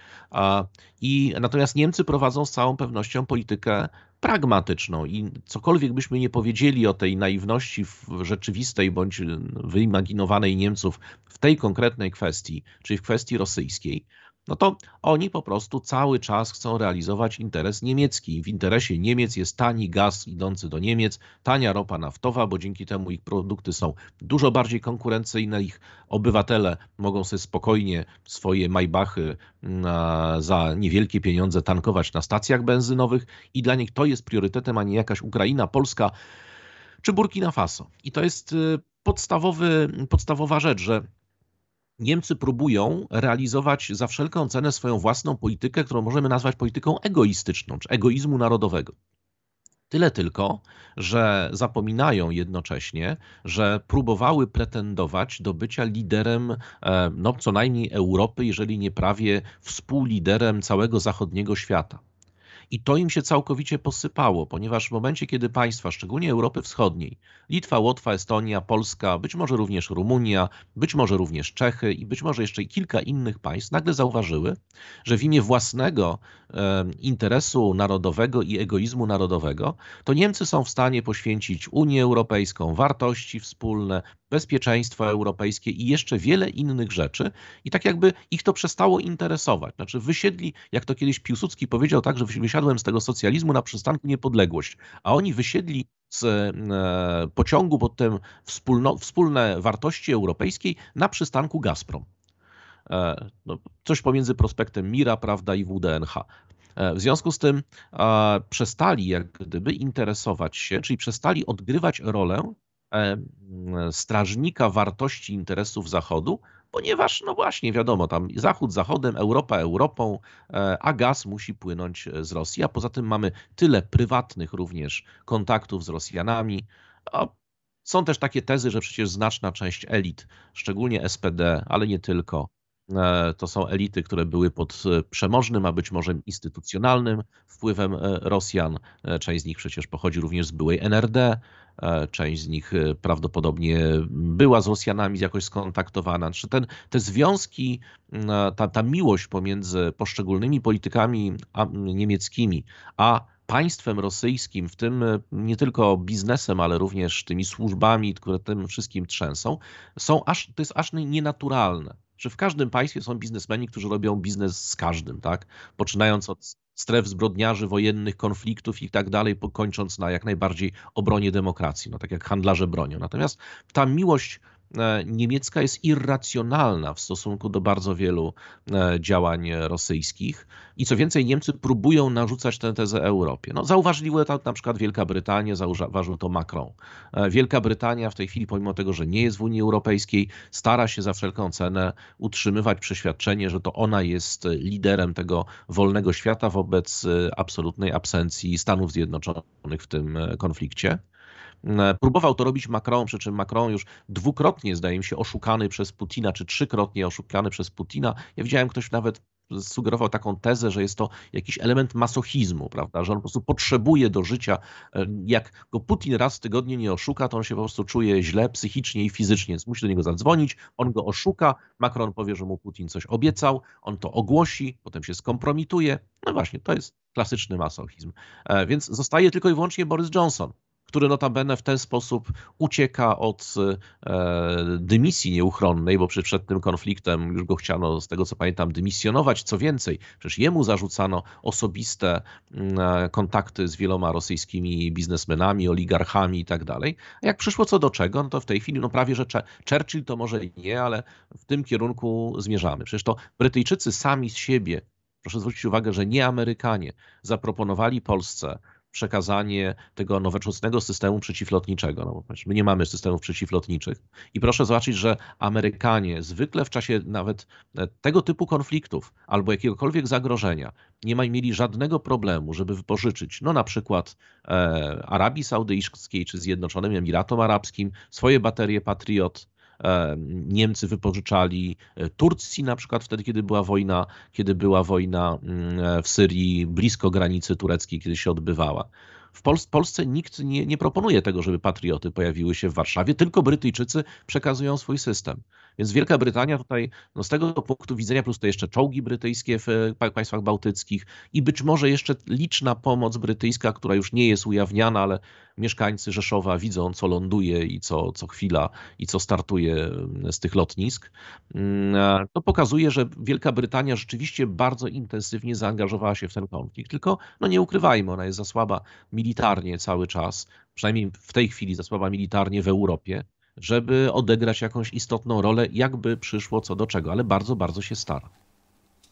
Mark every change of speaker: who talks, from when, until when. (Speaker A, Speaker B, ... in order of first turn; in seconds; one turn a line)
Speaker A: 0.3-36.1
Speaker A: 37.0-41.0
Speaker A: 42.0-48.9
Speaker A: 49.9-62.0
Speaker A: 62.7-102.1
Speaker A: 102.9-127.3
Speaker A: 127.8-201.0
Speaker A: 201.6-328.3